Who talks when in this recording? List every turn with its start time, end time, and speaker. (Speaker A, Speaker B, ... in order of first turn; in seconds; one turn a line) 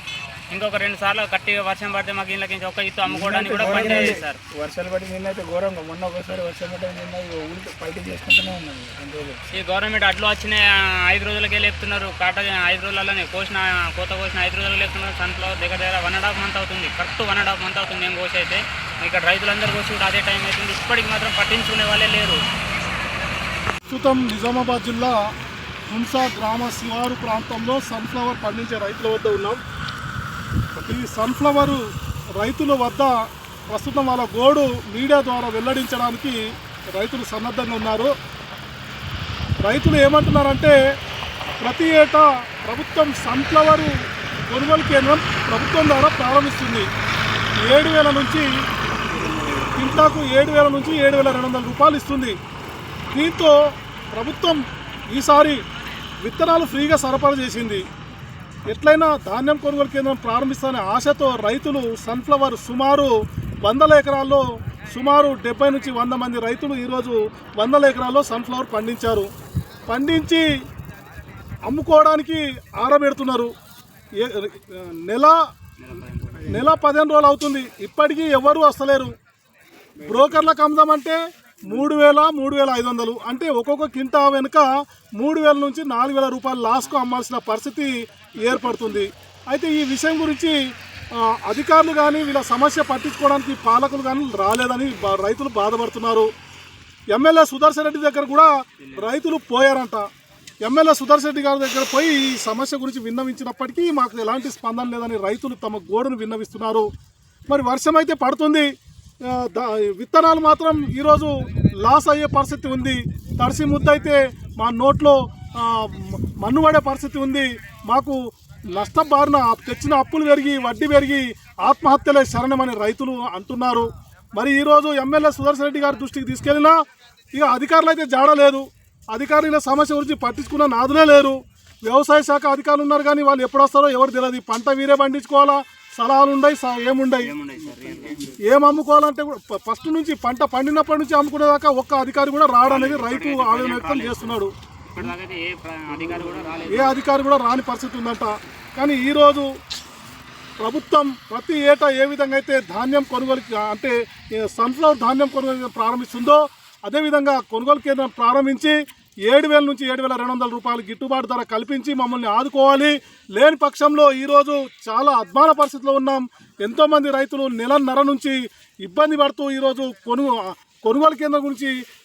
Speaker A: 0.5-4.4
Speaker B: 3.0-9.5
Speaker A: 9.5-22.4
Speaker C: 23.9-25.2
Speaker C: 25.9-29.6
Speaker C: 30.8-31.8
Speaker C: 32.4-33.1
Speaker C: 33.7-36.4
Speaker C: 36.9-38.1
Speaker C: 39.6-40.7
Speaker C: 41.6-43.9
Speaker C: 44.5-46.9
Speaker C: 47.6-48.5
Speaker B: 49.1-50.1
Speaker C: 49.7-52.4
Speaker C: 53.1-53.5
Speaker C: 54.1-54.6
Speaker C: 55.1-55.6
Speaker C: 56.2-57.8
Speaker C: 58.7-63.1
Speaker C: 63.6-69.3
Speaker C: 69.9-70.4
Speaker C: 71.7-73.5
Speaker C: 74.2-75.3
Speaker A: 75.8-76.6
Speaker C: 76.5-79.1
Speaker C: 80.0-84.6
Speaker B: 80.0-80.4
Speaker C: 85.2-90.5
Speaker C: 91.2-96.3
Speaker C: 97.1-100.0
Speaker C: 100.7-106.8
Speaker C: 107.5-108.7
Speaker C: 109.2-111.3
Speaker C: 111.8-118.2
Speaker C: 118.7-126.7
Speaker C: 127.3-137.3
Speaker A: 137.2-138.4
Speaker B: 137.7-138.3
Speaker C: 138.4-144.5
Speaker A: 142.6-144.4
Speaker A: 144.9-147.0
Speaker C: 146.7-149.5
Speaker C: 150.6-158.7
Speaker C: 159.3-171.7